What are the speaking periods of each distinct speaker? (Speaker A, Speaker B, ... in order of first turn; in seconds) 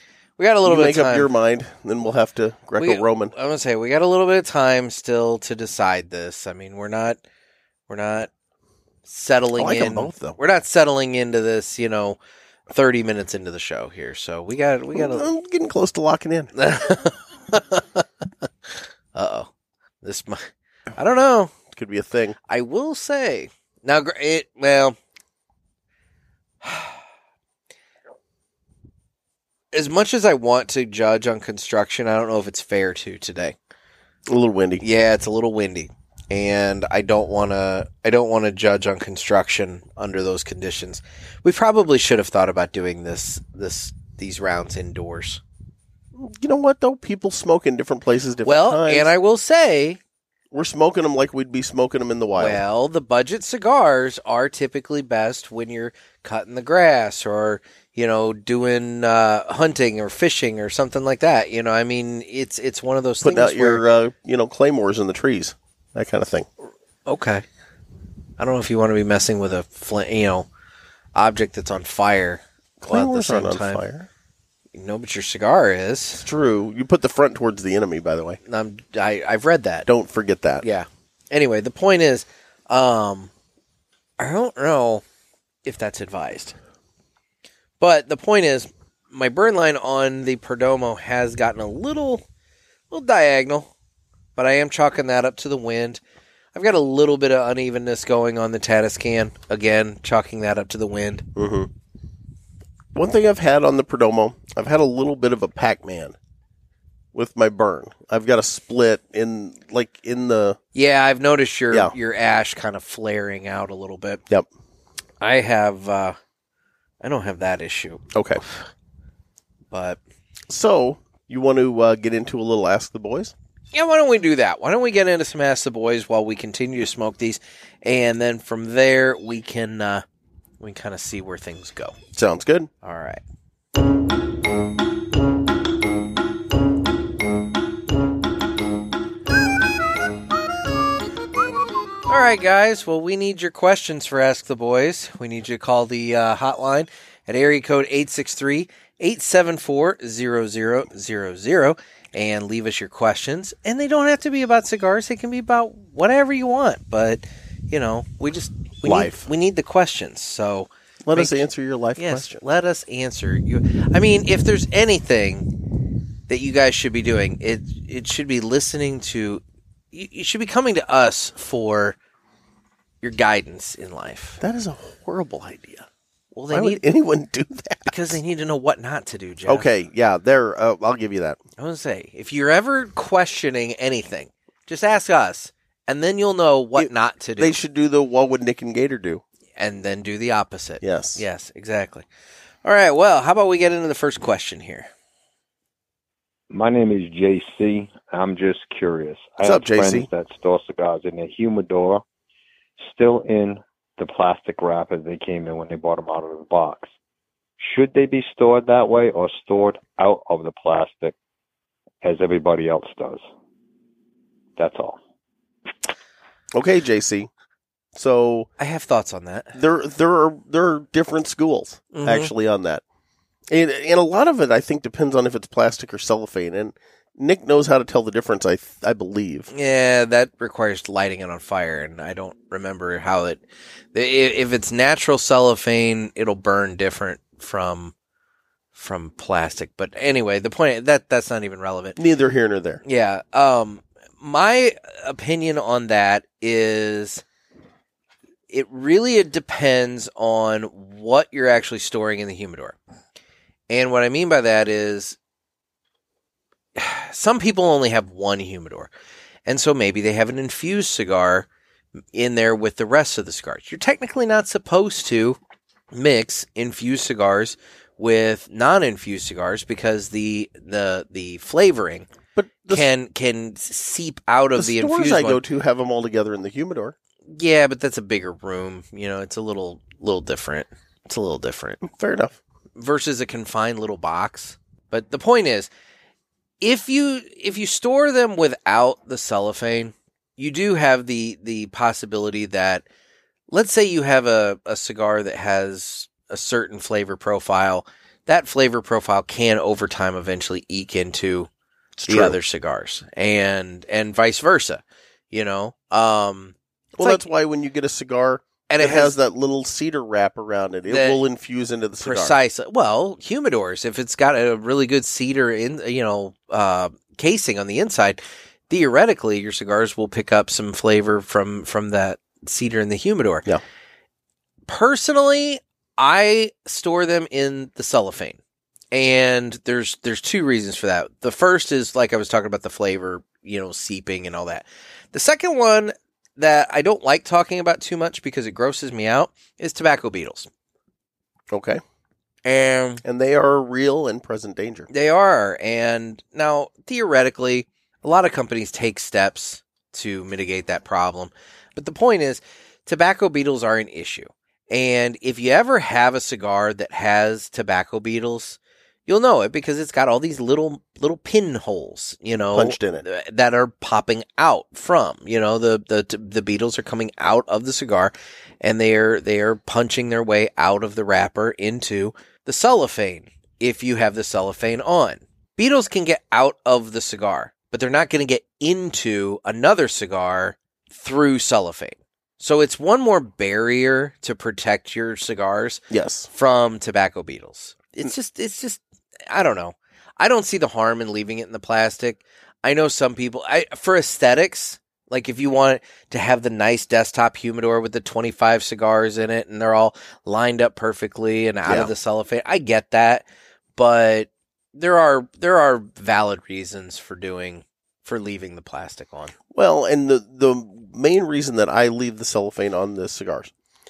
Speaker A: 0.4-1.3, 2.8-7.2, 7.9-8.3, 9.1-12.2, 12.7-15.3, 16.6-18.1, 19.1-19.5, 20.0-21.5, 22.5-25.0, 26.6-27.0, 29.7-33.6, 34.8-45.4, 48.4-50.0, 52.4-63.8, 67.1-67.5, 68.4-70.5, 71.2-73.8, 74.7-76.2, 78.5-79.9, 80.6-83.3, 84.2-85.0, 85.7-86.6, 87.8-92.2, 92.9-93.7, 94.4-96.0, 96.5-101.3, 110.8-114.2, 115.2-116.2, 117.0-118.5, 119.7-120.0, 123.7-130.0, 130.6-132.0, 132.8-133.2, 142.1-161.4, 162.0-165.5, 166.3-172.0, 173.0-174.4, 176.3-176.8, 177.9-179.7, 181.6-187.6, 189.6-192.1, 192.6-194.9, 218.6-219.6, 221.9-222.3, 229.5-233.4, 233.9-237.9, 238.7-242.0, 242.8-247.2, 248.5-252.8, 253.7-255.2, 256.8-258.9, 259.5-261.5, 262.1-265.4, 265.9-272.1, 272.7-275.4, 277.3-281.8, 282.8-285.7, 286.6-292.8, 293.5-301.5, 302.1-307.2, 308.7-309.2, 310.9-311.2, 312.0-323.5, 324.7-328.4, 328.9-340.5, 342.4-343.0, 344.9-403.2, 403.8-409.3
Speaker B: 0.7-3.3, 9.6-10.4, 14.9-16.5, 21.7-22.4, 34.3-34.8, 46.1-49.1, 50.5-52.6, 63.2-66.5, 72.8-74.1, 76.2-78.4, 79.9-80.6, 101.4-101.7, 102.9-106.2, 107.1-110.6, 118.1-118.4, 120.5-123.3, 132.1-132.7, 158.8-159.3, 161.0-162.4, 174.4-175.9, 176.5-178.2, 179.5-181.4, 186.8-189.2, 190.8-191.2, 199.4-200.1, 216.5-217.3, 217.9-218.5, 219.5-222.8, 223.5-229.5, 242.0-242.8, 272.4-272.9, 274.6-276.9, 281.8-282.4, 302.0-302.4, 306.9-312.4, 341.5-341.8, 343.0-344.9, 362.5-363.1, 385.9-386.3, 401.7-401.9, 409.5-413.5
Speaker C: 196.5-202.0, 202.8-206.9, 207.6-211.2, 212.0-213.2, 214.6-215.0